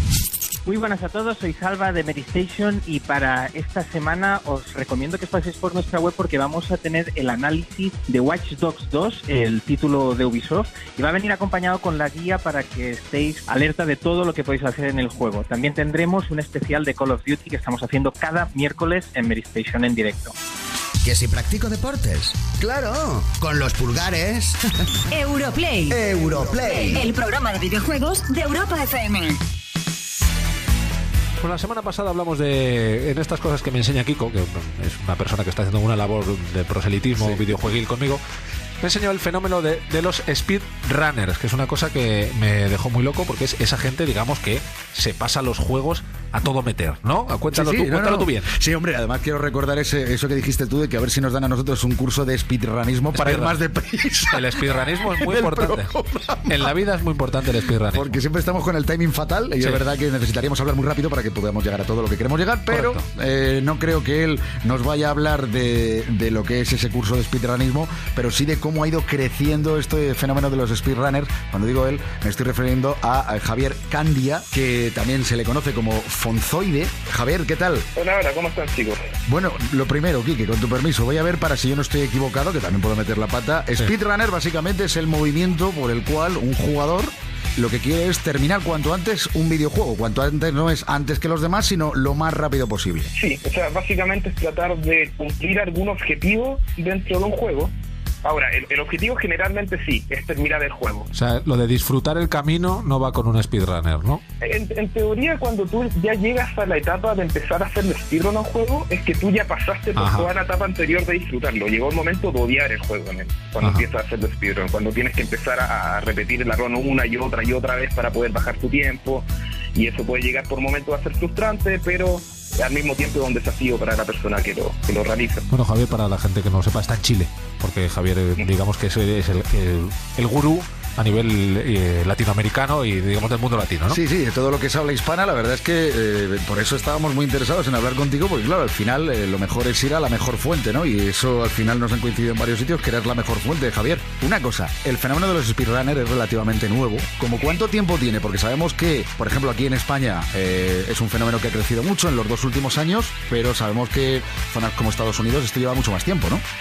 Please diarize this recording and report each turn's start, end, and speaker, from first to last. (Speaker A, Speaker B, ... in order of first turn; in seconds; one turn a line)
Speaker A: 0.7-20.3
Speaker B: 21.0-24.6
Speaker C: 25.1-26.0
Speaker B: 25.9-27.0
Speaker C: 26.8-29.4
Speaker D: 31.4-38.2
Speaker D: 38.8-48.5
Speaker E: 47.5-56.7
Speaker D: 53.1-53.6
Speaker D: 54.3-55.9
Speaker D: 56.5-58.2
Speaker E: 57.9-77.8
Speaker D: 62.7-63.0
Speaker F: 77.9-79.0
Speaker E: 79.3-93.1
Speaker F: 93.1-97.7
Speaker F: 98.2-101.1
Speaker D: 101.1-104.2
Speaker F: 104.4-119.2
Speaker D: 110.0-110.3
Speaker F: 119.8-125.4
Speaker D: 125.5-134.0
Speaker E: 133.9-156.4